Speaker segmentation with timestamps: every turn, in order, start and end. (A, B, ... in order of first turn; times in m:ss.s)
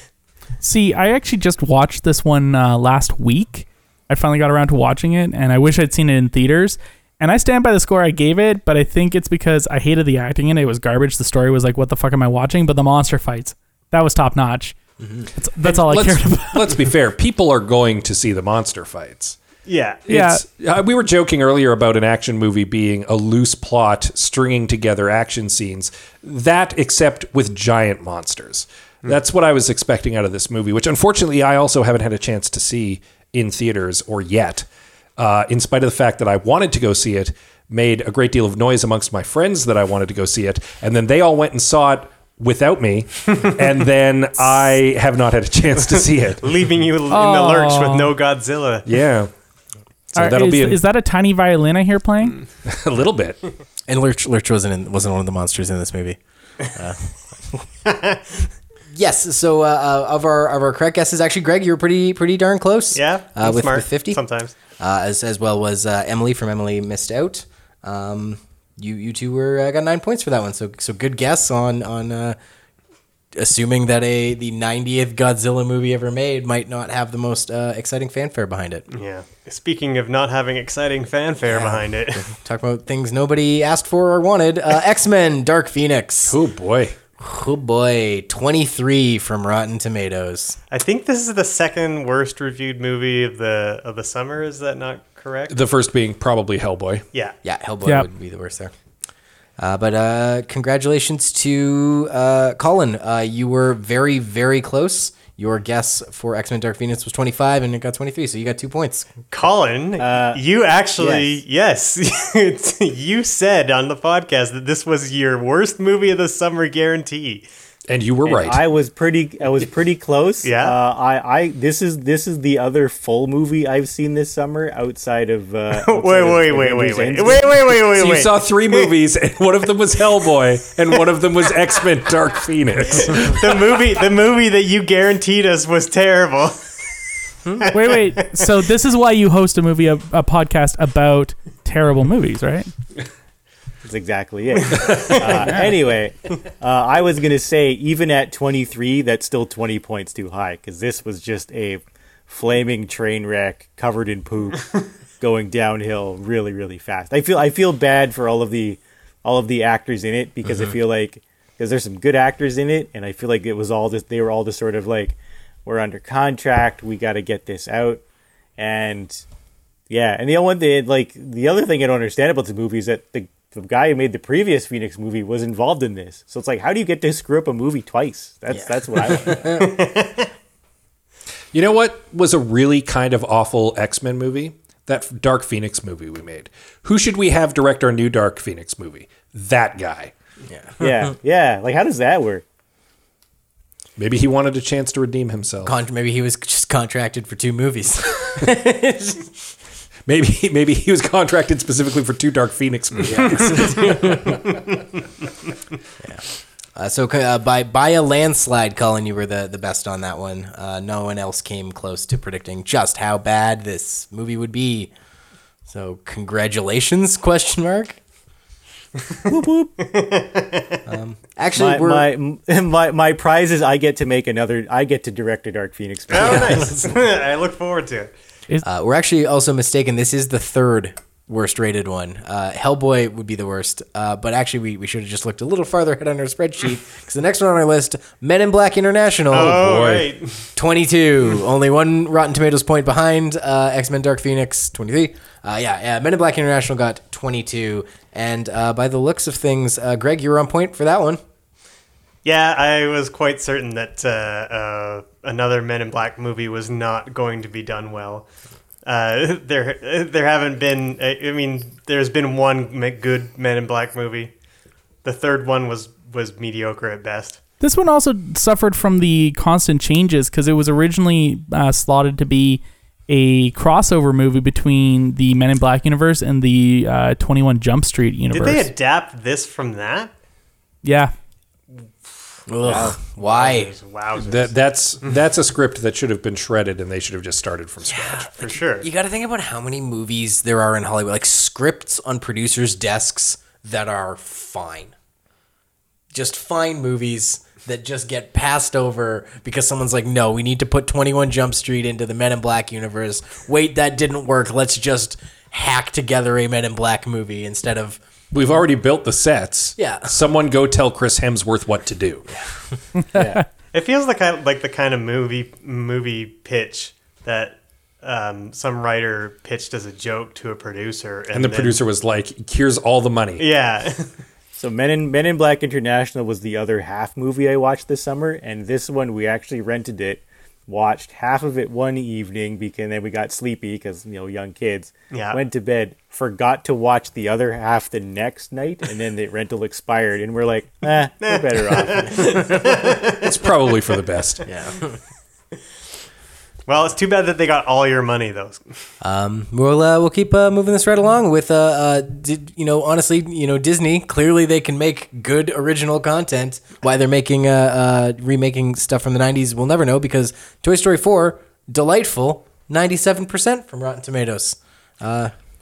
0:00.6-0:14.8 A
0:15.0-0:15.3 B
0:15.3-0:16.8 A
0:15.6-0:19.4 C
0:19.6-0:20.0 D
0:20.1-0:46.4 C
0:20.1-0:20.4 A
0:45.9-0:48.8 D
0:47.1-0:48.1 A
0:48.8-0:49.3 C
0:50.1-0:50.8 C
0:50.2-0:52.4 A
0:52.6-0:53.4 C
0:53.9-0:56.2 B
0:56.7-0:57.6 B
0:57.8-0:58.5 D
0:58.9-1:04.2 B
1:02.9-1:04.5 D
1:04.8-1:12.4 B
1:13.3-1:18.8 B
1:18.9-1:22.2 D
1:21.5-1:26.4 B
1:26.3-1:27.0 C
1:27.2-1:30.6 B
1:30.7-1:35.6 D
1:35.5-1:37.0 C
1:37.4-1:38.7 B
1:39.6-1:49.1 B
1:49.3-1:57.5 D
1:50.0-1:50.4 E
1:51.0-1:51.4 E
1:57.9-1:58.6 C
1:58.2-2:07.6 E
2:00.4-2:00.8 D
2:05.7-2:08.9 D
2:07.9-2:13.6 C
2:12.9-2:16.8 D
2:17.5-2:18.5 D
2:17.7-2:22.7 A
2:23.8-2:48.0 E
2:24.8-2:25.4 D
2:48.6-2:49.2 E
2:49.9-2:59.6 E
2:58.5-2:59.7 B
2:59.6-3:00.3 D
3:01.5-3:10.1 C
3:10.5-3:11.1 B
3:10.8-3:12.4 E
3:14.0-3:15.8 C
3:15.6-3:19.5 B
3:20.0-3:24.6 C
3:23.0-3:24.3 B
3:26.8-3:34.9 B
3:35.7-3:38.0 B
3:39.2-3:39.8 E
3:39.8-3:40.8 D
3:40.8-3:42.1 B
3:41.6-3:46.7 E
3:46.1-3:48.1 D
3:46.2-3:46.7 B
3:48.6-4:00.0 B
3:59.3-4:00.5 D
3:59.6-4:00.0 C
4:00.6-4:11.2 B
4:12.2-4:18.3 D
4:18.8-4:24.3 D
4:25.0-4:27.4 D
4:27.6-4:38.7 A
4:38.3-4:40.1 D
4:40.8-4:41.1 A
4:42.1-4:45.1 D
4:42.5-4:43.7 B
4:44.2-4:48.3 C
4:47.9-4:48.3 B
4:48.4-4:48.9 D
4:48.8-4:54.9 B
4:56.1-5:08.0 B
5:08.3-5:12.3 C
5:09.8-5:10.2 B
5:13.1-5:13.4 E
5:13.7-5:21.8 D
5:21.3-5:23.4 C
5:23.4-5:24.1 D
5:24.5-5:42.6 E
5:35.1-5:35.4 D
5:41.2-5:43.3 D
5:43.2-5:44.4 C
5:44.4-5:45.0 B
5:46.7-5:48.8 D
5:49.0-6:05.3 B